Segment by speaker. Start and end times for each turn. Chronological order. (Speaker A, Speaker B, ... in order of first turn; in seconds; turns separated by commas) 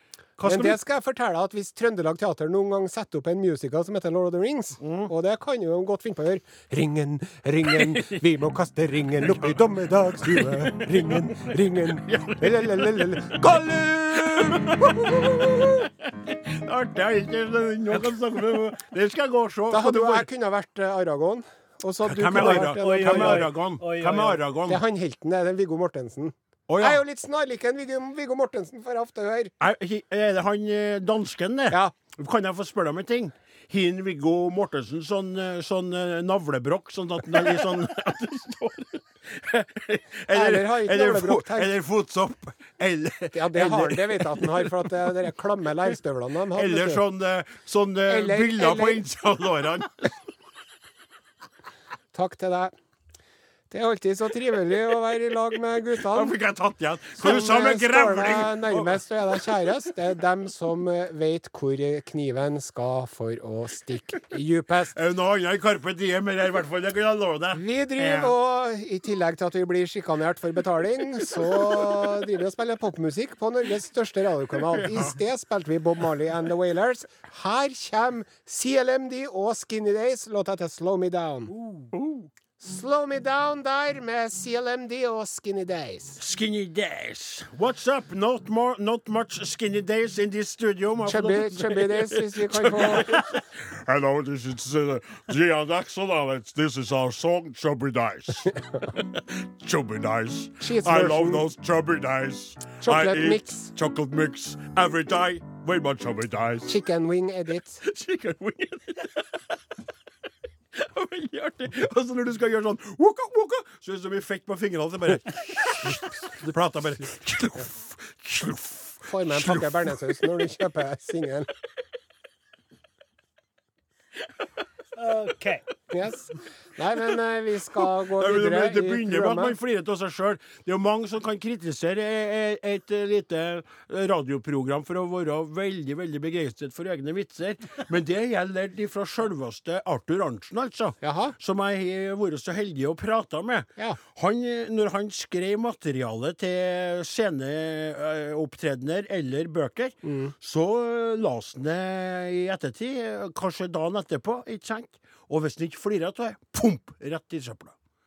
Speaker A: 0.4-0.8, Speaker B: 0.4-13.6, Speaker A: 4.8-5.1, Speaker A: 7.6-8.2, Speaker A: 9.2-9.6, Speaker A: 10.1-20.3, Speaker B: 14.2-15.6, Speaker B: 19.7-23.5, Speaker A: 22.0-24.8, Speaker C: 22.3-24.4, Speaker B: 24.7-29.5, Speaker A: 26.7-27.0, Speaker A: 29.6-45.1, Speaker B: 40.3-41.7, Speaker B: 43.3-47.0, Speaker A: 46.5-50.2, Speaker B: 48.1-49.0, Speaker B: 52.1-52.7, Speaker B: 53.7-56.3, Speaker A: 56.0-59.4, Speaker B: 57.2-65.0, Speaker A: 64.9-68.3, Speaker B: 67.5-81.5, Speaker A: 71.2-72.2, Speaker A: 74.6-75.2, Speaker A: 81.9-82.3, Speaker B: 82.6-86.2, Speaker A: 86.2-106.8, Speaker B: 91.0-93.2, Speaker B: 100.6-101.5, Speaker B: 102.8-103.7, Speaker B: 106.7-107.8, Speaker A: 107.8-109.6, Speaker A: 110.7-120.5, Speaker B: 119.0-121.5, Speaker C: 125.0-125.7, Speaker B: 125.9-129.6, Speaker A: 127.8-157.7, Speaker B: 141.0-141.3, Speaker B: 150.0-150.3